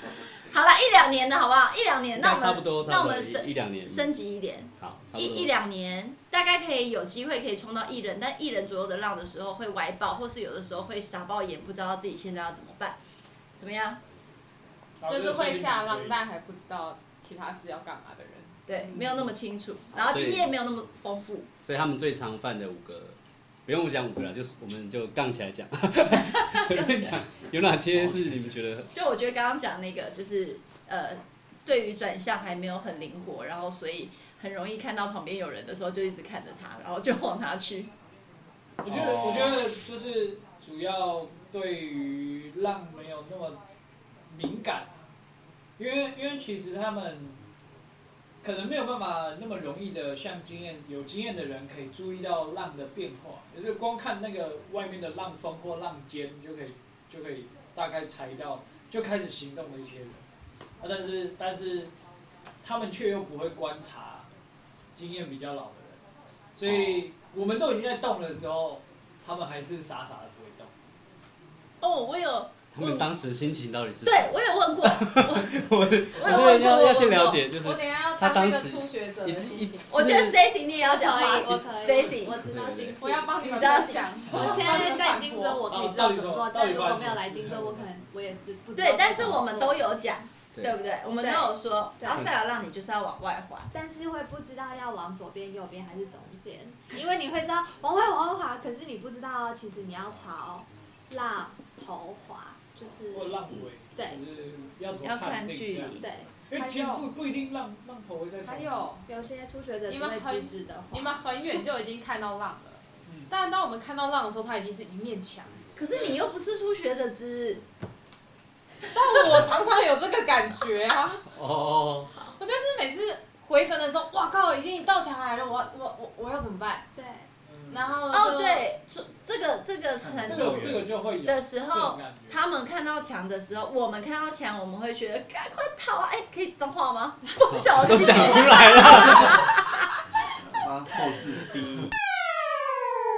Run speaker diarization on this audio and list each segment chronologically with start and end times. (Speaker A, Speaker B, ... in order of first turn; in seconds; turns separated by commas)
Speaker A: 0.5-13.0, Speaker B: 2.2-4.1, Speaker B: 4.8-5.5, Speaker A: 13.6-14.0, Speaker C: 15.0-16.2, Speaker D: 15.1-18.6, Speaker A: 18.7-21.5, Speaker B: 20.0-20.5, Speaker B: 21.6-28.9, Speaker A: 26.3-27.2, Speaker A: 28.9-37.9, Speaker C: 38.8-43.6, Speaker B: 38.9-39.7, Speaker C: 44.3-44.9, Speaker C: 45.8-47.4, Speaker C: 48.4-60.2, Speaker C: 60.8-61.9, Speaker C: 62.6-64.3, Speaker C: 65.0-66.0, Speaker C: 66.6-70.7, Speaker B: 66.7-67.1, Speaker A: 71.8-73.1, Speaker B: 72.7-80.4, Speaker A: 74.0-77.5, Speaker D: 76.3-76.6, Speaker D: 77.5-80.0, Speaker A: 79.9-82.5, Speaker E: 80.8-89.8, Speaker B: 82.4-83.0, Speaker D: 83.0-85.7, Speaker A: 83.3-84.8, Speaker C: 85.7-87.8, Speaker A: 88.8-93.7, Speaker E: 91.2-92.3, Speaker B: 92.1-92.3, Speaker E: 93.7-103.4, Speaker C: 103.1-106.0, Speaker E: 104.0-104.2, Speaker A: 105.0-106.1, Speaker E: 106.0-106.3, Speaker C: 106.5-108.9, Speaker D: 106.5-107.1, Speaker D: 108.4-109.0, Speaker E: 109.1-111.2, Speaker D: 109.9-116.2, Speaker C: 113.0-113.3, Speaker A: 115.8-117.7, Speaker D: 118.9-121.3, Speaker B: 121.2-122.1, Speaker D: 122.4-126.9, Speaker E: 126.9-127.3, Speaker C: 127.5-127.9, Speaker D: 127.7-128.7, Speaker A: 128.1-139.9, Speaker F: 130.0-131.0, Speaker C: 130.3-132.4, Speaker B: 137.5-139.5, Speaker F: 140.6-141.9